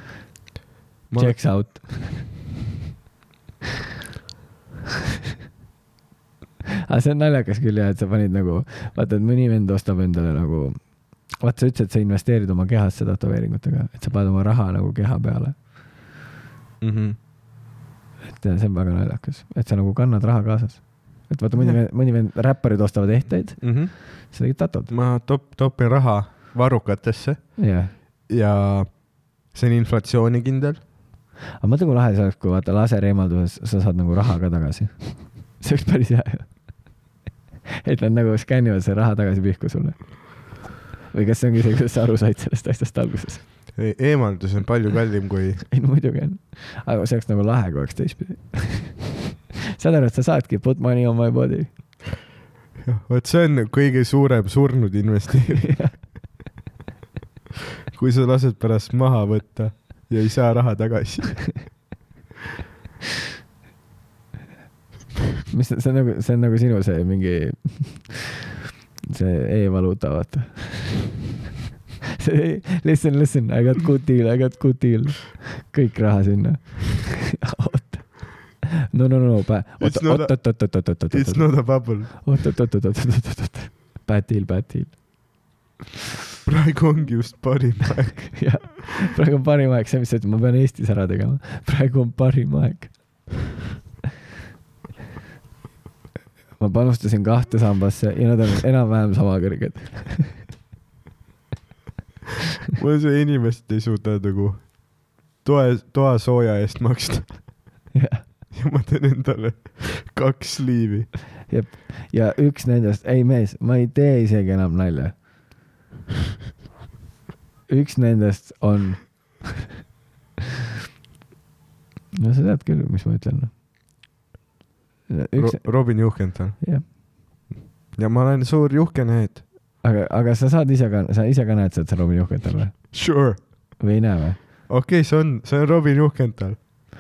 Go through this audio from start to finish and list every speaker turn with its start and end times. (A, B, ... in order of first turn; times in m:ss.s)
0:01.1-0:01.4 A
0:01.2-0:02.2 B
0:06.9-0:15.6 B
0:16.8-0:17.2 A
0:18.4-0:24.9 B
0:21.6-0:21.8 A
0:23.6-0:23.9 A
0:24.9-0:30.8 A
0:27.6-0:27.9 B
0:31.6-0:37.0 B
0:37.8-0:43.5 B
0:43.8-0:45.7 A
0:45.7-0:49.2 B
0:49.8-0:52.0 B
0:52.8-0:56.0 A
0:55.6-0:56.0 B
0:57.9-1:01.8 A
1:05.5-1:08.5 B
1:09.1-1:11.2 B
1:12.2-1:25.0 B
1:19.8-1:22.1 A
1:26.4-1:28.7 A
1:28.3-1:33.3 B
1:36.6-1:40.5 B
1:42.8-1:47.8 A
1:47.9-1:48.2 B
1:48.5-1:51.1 A
1:51.5-1:55.2 B
1:57.7-1:59.6 B
2:02.2-2:03.5 B
2:05.1-2:06.8 B
2:05.4-2:06.6 A
2:08.0-2:09.4 A
2:09.8-2:13.0 B
2:12.9-2:13.8 A
2:13.8-2:14.4 B
2:14.7-2:16.6 A